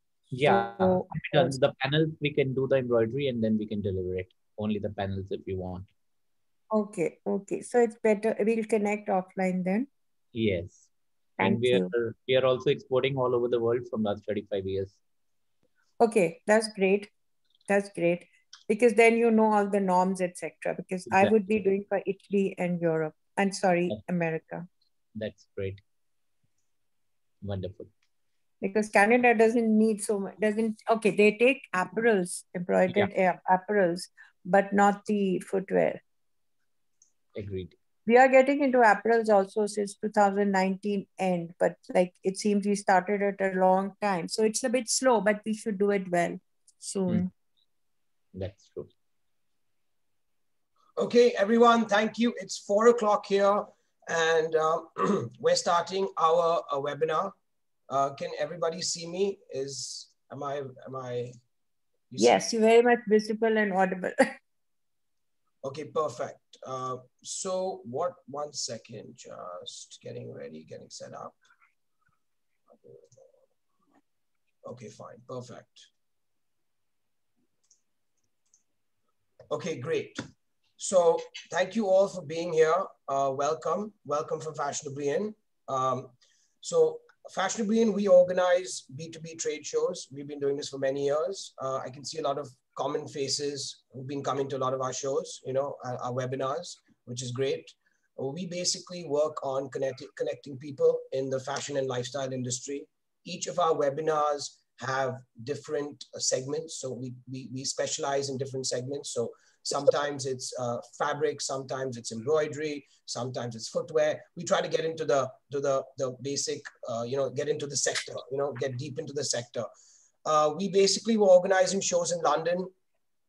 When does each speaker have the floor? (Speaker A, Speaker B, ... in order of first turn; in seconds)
Speaker A: 0.3-5.9, 10.3-10.8, 11.4-15.0, 21.1-21.3, 25.1-25.8, 27.4-27.9, 37.3-37.7, 48.3-48.9
Speaker B: 0.4-1.6, 6.7-9.9, 11.4-11.9, 16.0-17.1, 17.7-24.6, 28.6-36.0, 38.0-47.3, 62.2-64.4
Speaker C: 51.0-57.3, 57.9-61.3, 62.1-62.4, 65.6-71.3, 72.7-73.3, 74.6-75.9, 79.5-80.2, 80.8-119.7, 120.2-122.7